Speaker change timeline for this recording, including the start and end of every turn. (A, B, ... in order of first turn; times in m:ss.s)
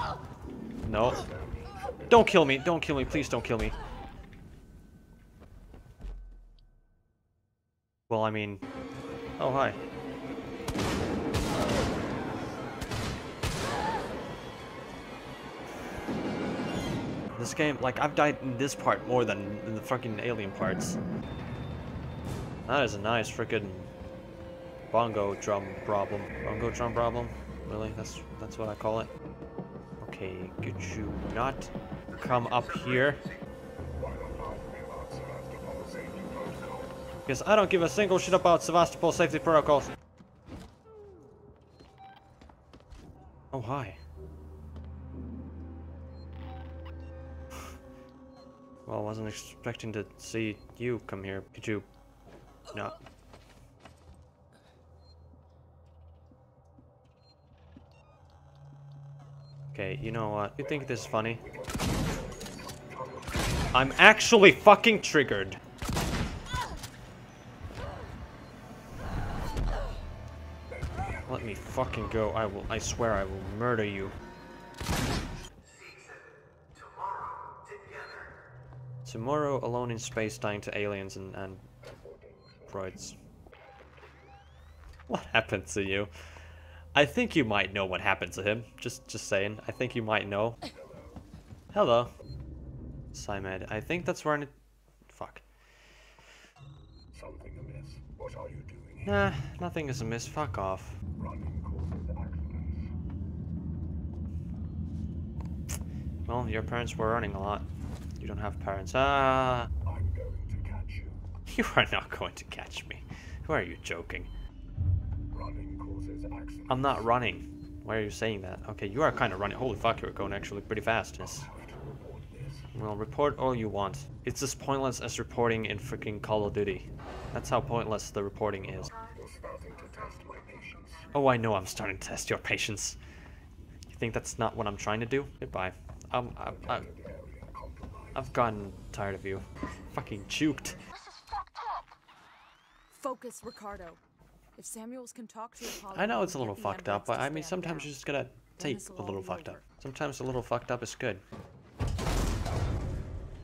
0:00.8-0:01.3 A
0:02.1-0:03.7 A
0:08.1-0:08.6 A
0:09.4-0:09.8 A
0:17.4-0:21.0 A
0:22.7-0:23.9 A
0:24.9-0:29.1 A
0:30.0-0:33.2 A
0:34.0-0:36.4 B
0:37.2-0:39.9 A
0:43.5-0:44.0 A
0:48.8-0:51.9 A
0:52.7-0:53.0 A
0:59.7-1:01.4 A
1:01.8-1:03.2 B
1:03.7-1:05.6 A
1:11.2-1:14.2 A
1:19.0-1:21.7 A
1:22.7-1:23.2 A
1:25.1-1:26.1 A
1:26.9-1:30.6 A
1:31.7-1:32.1 A
1:33.1-1:34.5 A
1:35.1-1:35.4 A
1:37.2-1:39.0 B
1:39.0-1:41.0 A
1:41.2-1:42.8 B
1:46.2-1:47.7 A
1:48.2-1:49.7 A
1:49.9-1:51.1 B
1:51.5-1:54.3 A
1:55.3-1:56.6 B
1:56.7-2:01.5 A
2:01.6-2:02.5 B
2:02.7-2:09.0 A
2:09.2-2:10.9 B
2:11.1-2:13.0 A
2:13.9-2:16.9 A
2:17.1-2:17.3 B
2:18.1-2:20.8 A
2:21.5-2:21.8 C
2:22.9-2:24.0 C
2:24.6-2:27.9 C
2:25.9-2:31.2 A
2:28.6-2:29.6 C